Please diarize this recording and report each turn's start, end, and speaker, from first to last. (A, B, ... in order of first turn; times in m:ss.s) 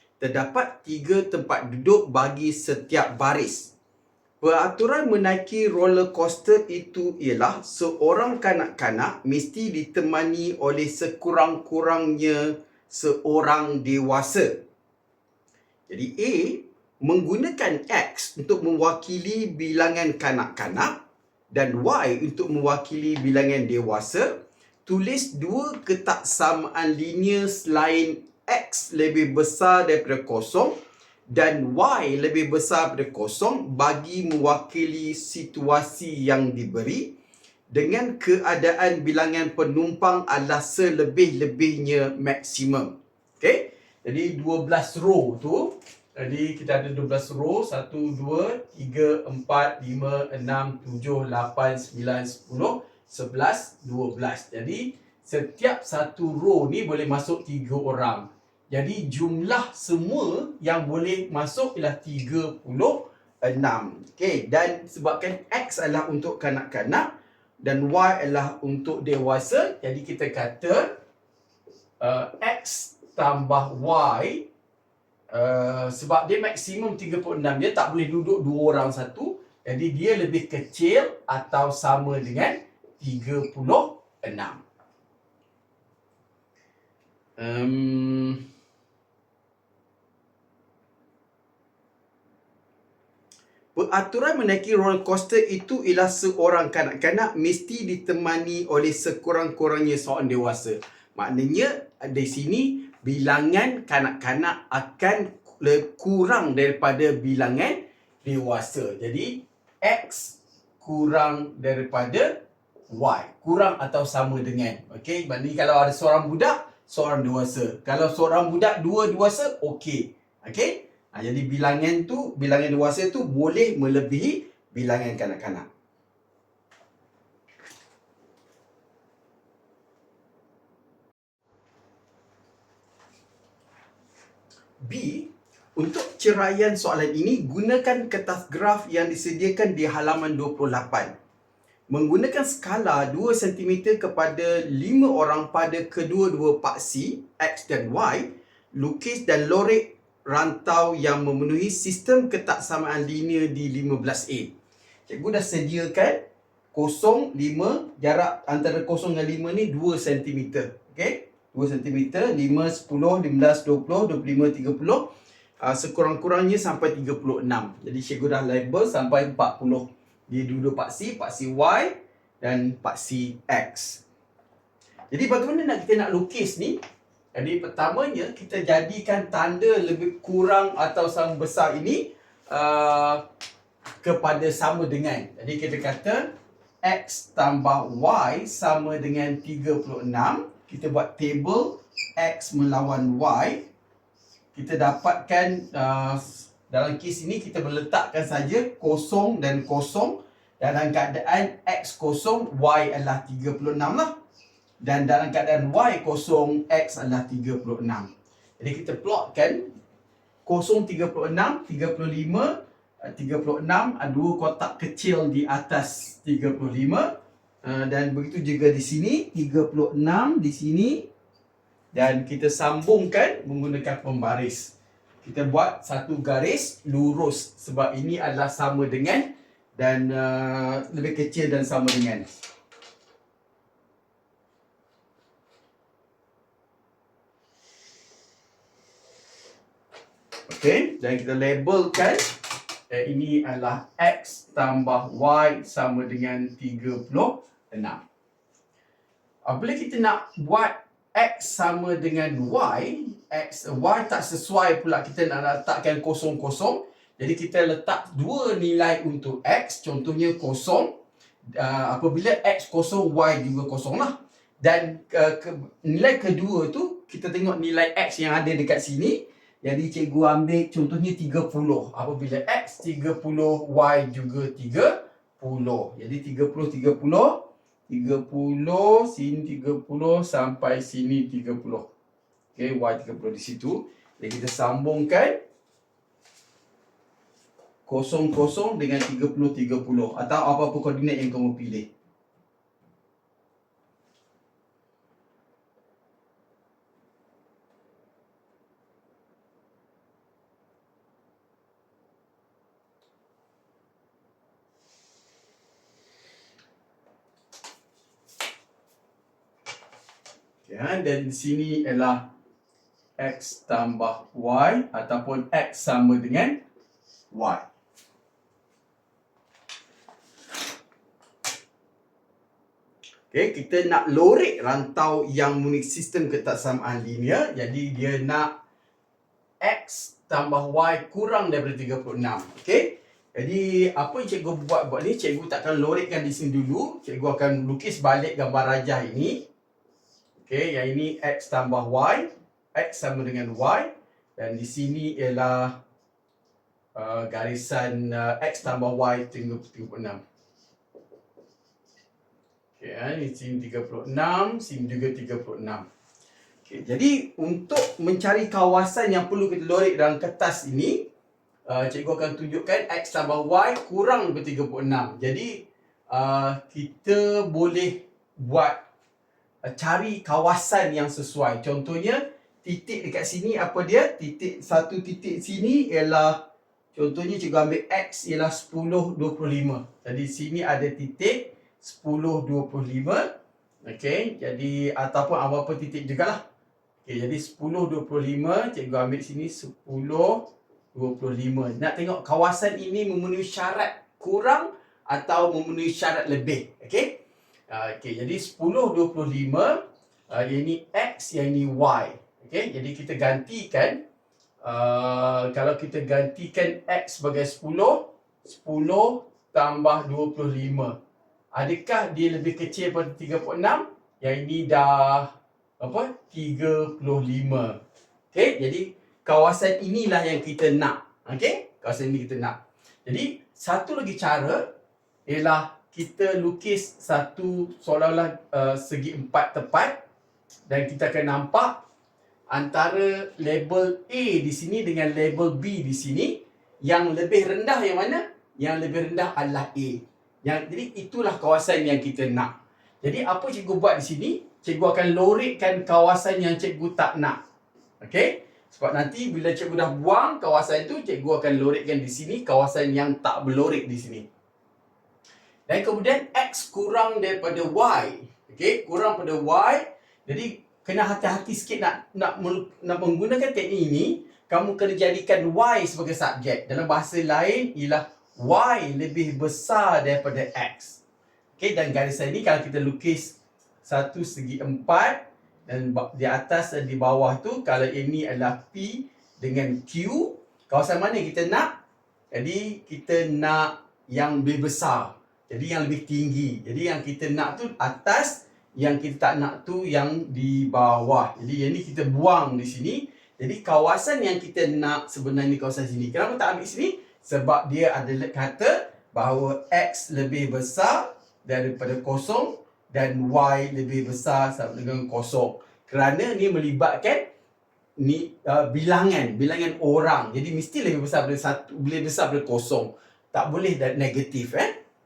0:00.2-0:03.7 A
0:04.4-0:14.6 A
0:15.9-0:21.0 A
0:21.5-0:30.8 A
0:31.3-0:37.2 A
0:37.7-1:10.9 A
1:12.0-1:14.5 A
1:15.3-1:24.6 A
1:27.4-1:28.4 A
1:33.8-1:52.4 A
1:52.9-2:05.7 A
2:14.8-2:21.2 A
2:21.9-2:34.5 A
2:35.1-2:36.2 A
2:36.7-2:45.1 A
2:45.6-2:54.0 A
2:55.1-2:56.8 A
2:57.3-3:03.2 A
3:04.0-3:06.3 A
3:06.8-3:13.7 A
3:14.5-3:24.2 A
3:24.8-3:29.7 A
3:30.4-3:41.1 A
3:41.9-3:52.4 A
4:00.5-4:02.4 A
4:02.9-4:08.0 A
4:09.5-4:20.9 A
4:21.5-4:41.9 A
4:42.6-4:45.4 A
4:47.9-4:51.9 A
5:10.6-5:12.3 A
5:13.2-5:16.6 A
5:17.3-5:17.7 A
5:23.3-5:28.5 A
5:29.6-5:39.5 A
5:40.4-5:45.8 A
5:47.0-5:50.2 A
5:52.8-5:55.8 A
5:56.7-6:01.1 A
6:01.7-6:08.8 A
6:09.6-6:16.4 A
6:16.9-6:23.3 A
6:23.8-6:26.4 A
6:27.1-6:44.0 A
6:44.6-6:51.0 A
6:51.5-6:57.8 A
6:58.3-7:04.7 A
7:05.3-7:10.0 A
7:10.7-7:11.8 A
7:12.5-7:27.4 A
7:28.0-7:34.3 A
7:35.7-7:51.0 A
7:51.6-8:01.7 A
8:02.3-8:27.2 A
8:28.0-8:34.7 A